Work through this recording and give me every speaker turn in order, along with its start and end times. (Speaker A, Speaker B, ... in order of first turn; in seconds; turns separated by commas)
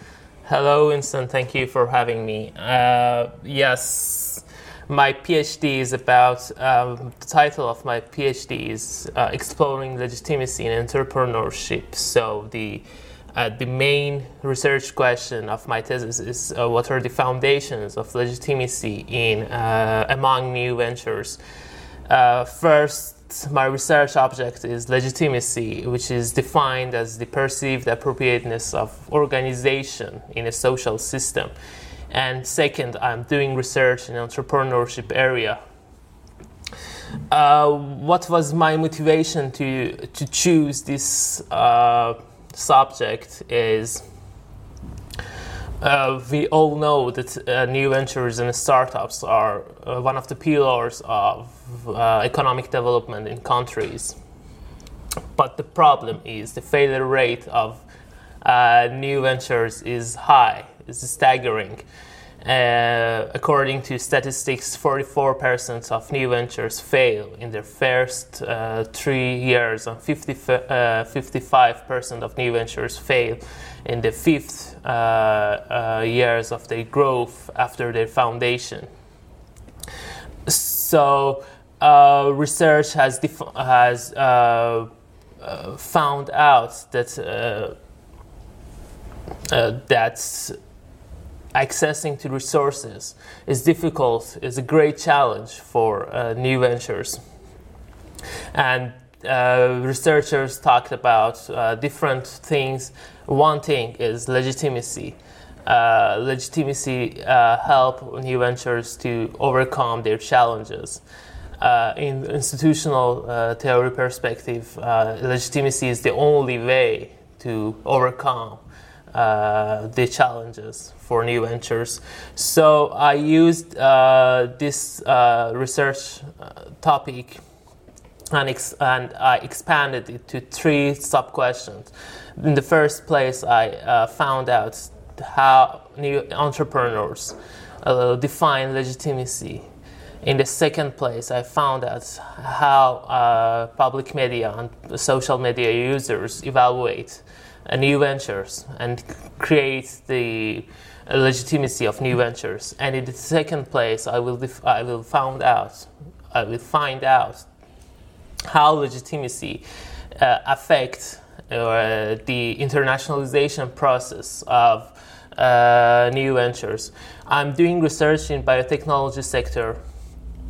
Speaker A: 0.5-21.4, Speaker A: 22.1-31.5, Speaker A: 32.1-35.6, Speaker A: 37.3-44.0, Speaker A: 45.8-54.2, Speaker A: 55.4-57.8, Speaker A: 58.4-61.8, Speaker A: 62.4-78.9, Speaker A: 80.5-84.9, Speaker A: 85.4-87.7, Speaker A: 89.5-90.5, Speaker A: 91.5-97.2, Speaker A: 98.5-111.0, Speaker A: 111.6-127.4, Speaker A: 128.3-139.7, Speaker A: 140.2-157.5, Speaker A: 158.5-159.6, Speaker A: 160.2-169.8